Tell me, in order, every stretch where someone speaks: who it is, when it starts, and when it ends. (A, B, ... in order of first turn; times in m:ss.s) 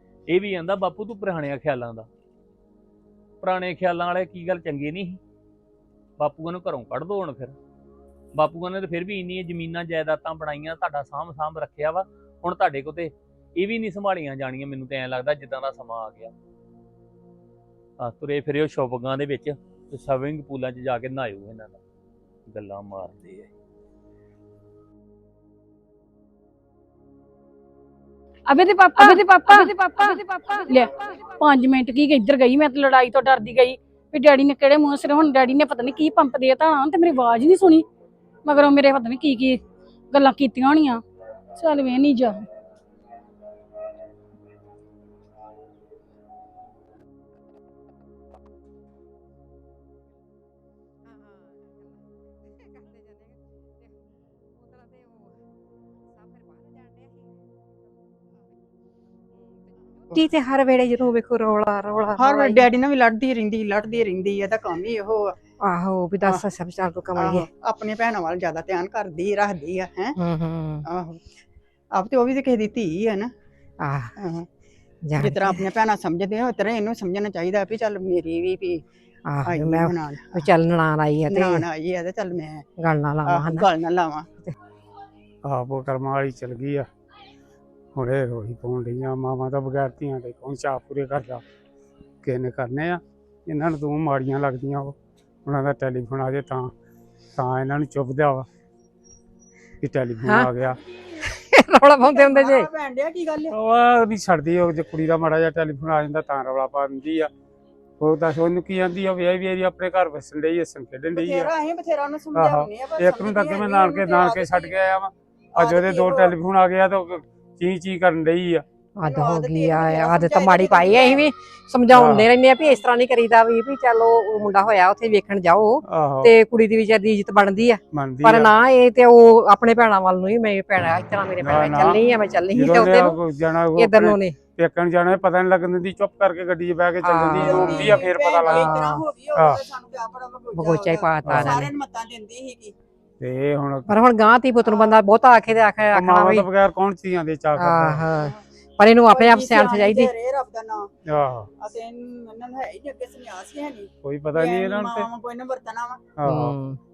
0:00.3-0:02.1 A
0:03.4-0:05.2 A
0:06.2-0:07.6 A
0:08.4-0:16.3 A
0:18.0-0:21.8 A
0:22.5-0:23.5 A
0:28.5-0:37.9 B
0:38.4-0:41.0 B
0:41.6-0:42.4 B
1:00.1-1:02.7 C
1:02.2-1:05.4 D
1:05.6-1:07.5 C
1:07.2-1:10.2 D
1:10.2-1:10.9 C
1:10.9-1:11.2 D
1:12.0-1:13.3 D
1:13.8-1:14.2 C
1:14.2-1:14.5 D
1:15.1-1:15.6 C
1:15.2-1:18.8 D
1:19.3-1:21.7 C
1:19.4-1:20.5 D
1:21.3-1:22.6 D
1:22.8-1:23.7 C
1:23.3-1:24.3 D
1:25.5-1:26.9 E
1:28.0-1:31.4 E
1:32.2-1:35.0 E
1:35.5-1:36.7 E
1:37.4-1:38.5 E
1:39.8-1:40.8 E
1:40.2-1:40.5 C
1:40.7-1:41.3 D
1:41.3-1:42.7 C
1:42.0-1:43.5 D
1:43.5-1:47.3 E
1:48.0-1:51.5 E
1:51.1-1:54.7 D
1:52.3-1:58.6 E
1:55.6-1:56.4 D
1:59.0-2:13.2 C
1:59.0-2:01.2 D
2:01.9-2:02.3 E
2:05.9-2:06.3 E
2:07.9-2:08.5 E
2:11.4-2:12.0 E
2:12.5-2:19.6 E
2:13.8-2:14.4 C
2:17.0-2:19.0 C
2:17.3-2:22.8 D
2:20.5-2:21.7 C
2:21.2-2:21.7 E
2:23.2-2:23.9 E
2:23.9-2:26.5 C
2:24.6-2:25.0 D
2:25.9-2:28.1 E
2:27.6-2:30.1 C
2:29.1-2:30.9 D
2:31.1-2:31.5 E
2:31.6-2:36.0 D
2:34.0-2:35.1 E
2:36.2-2:36.5 E
2:36.3-2:36.8 C